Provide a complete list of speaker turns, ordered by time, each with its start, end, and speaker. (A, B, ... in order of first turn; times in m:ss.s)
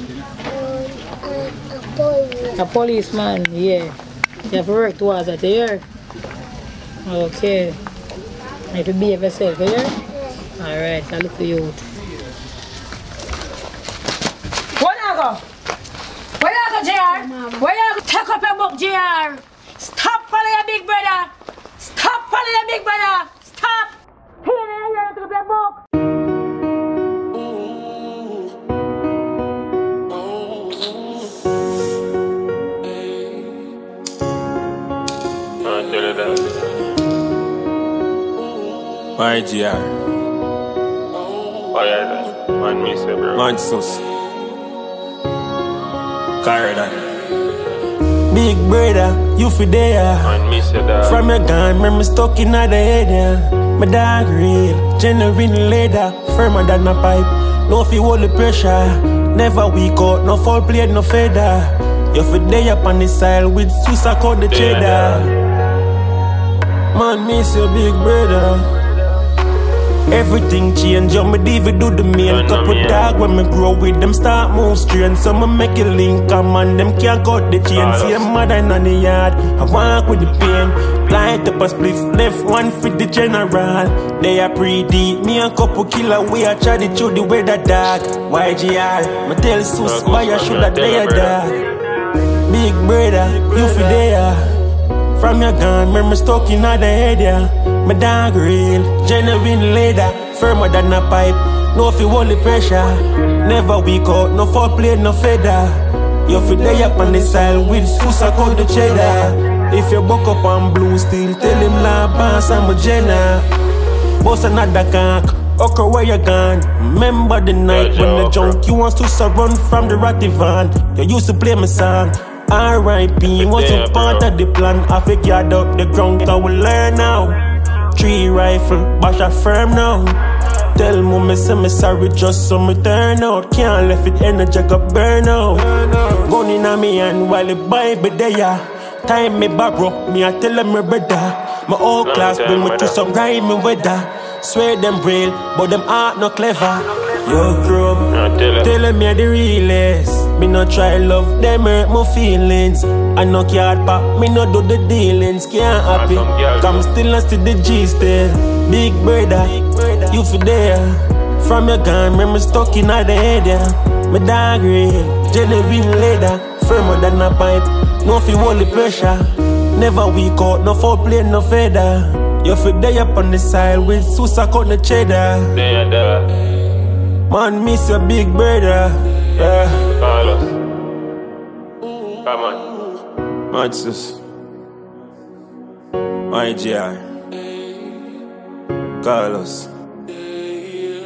0:00.5-0:02.5 A
0:02.4-0:03.9 B
0:04.5-0:05.8 B
0:07.0-0:07.8 B
0:08.7-0:11.8 B
0:14.8-0:15.4 B
0:16.4-0:25.8 B
0:35.6-0:36.6 C
0:39.2-0:39.9 D
0:41.7-0:43.5 C
0:43.3-0:44.0 D
0:46.4-0:47.0 D
0:48.3-0:50.4 D
0:50.2-0:51.2 C
0:51.0-1:05.3 D
1:04.4-1:05.3 C
1:06.9-1:08.7 D
1:10.1-1:31.6 D
1:12.2-1:13.1 C
1:17.7-1:18.3 C
1:29.8-1:31.4 C
1:32.4-1:34.5 D
1:35.2-1:53.5 D
1:54.2-2:07.4 D
1:57.7-1:58.6 C
2:03.3-2:04.3 C
2:07.9-2:10.2 D
2:10.7-2:55.6 D
2:22.0-2:23.0 C
2:28.1-2:28.7 C
2:35.9-2:36.9 C
2:55.5-2:56.3 C
2:57.3-3:00.0 D
3:00.0-3:00.6 C
3:02.2-3:02.7 C
3:03.5-3:04.2 D
3:06.3-3:07.0 D
3:09.0-3:09.7 D